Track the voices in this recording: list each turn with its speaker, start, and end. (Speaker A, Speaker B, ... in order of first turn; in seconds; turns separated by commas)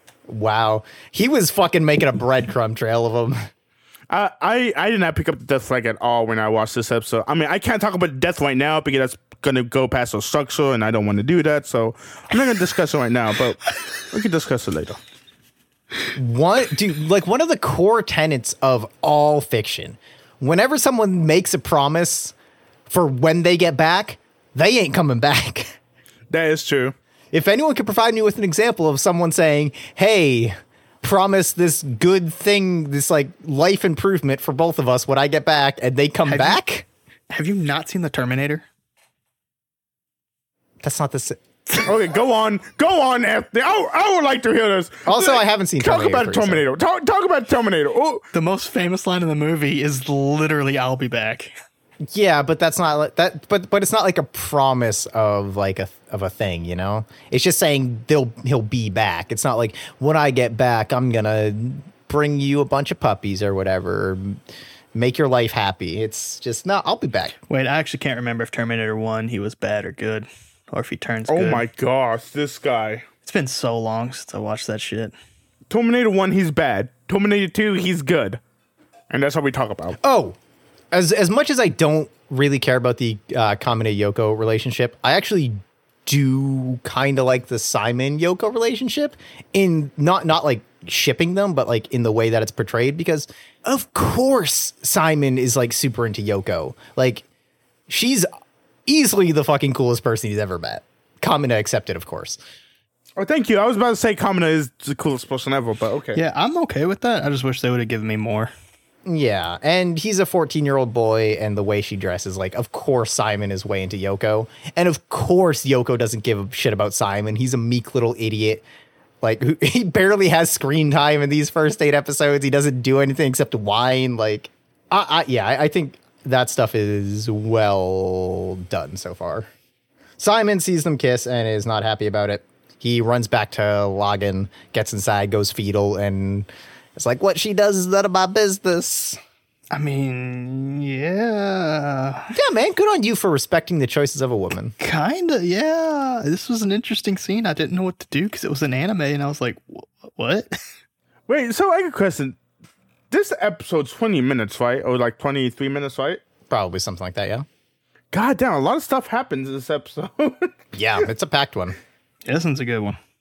Speaker A: 0.3-3.4, Speaker B: 4.1-15.0, Speaker A: 16.1-22.4, Speaker A: 22.9-25.7, Speaker B: 26.3-26.9, Speaker A: 27.3-36.9, Speaker C: 36.3-36.6, Speaker C: 37.3-38.6, Speaker A: 40.8-41.7, Speaker B: 41.8-48.2, Speaker A: 45.1-46.6, Speaker C: 48.3-51.5, Speaker A: 52.1-64.4, Speaker A: 64.9-67.3, Speaker C: 67.5-71.6, Speaker B: 71.3-73.1, Speaker C: 73.2-75.1, Speaker B: 75.7-78.4, Speaker B: 79.1-80.0, Speaker A: 80.0-80.4, Speaker A: 80.9-97.2, Speaker A: 97.9-98.3, Speaker A: 98.9-102.4, Speaker B: 103.2-106.2, Speaker C: 106.2-108.5, Speaker A: 109.1-118.6, Speaker A: 119.2-129.5, Speaker A: 130.2-139.2, Speaker C: 139.7-142.3, Speaker A: 142.3-144.8, Speaker C: 144.8-150.6, Speaker B: 151.3-152.4, Speaker B: 153.1-156.2, Speaker A: 156.5-157.5, Speaker B: 158.1-160.5, Speaker A: 160.7-161.8, Speaker C: 162.2-163.0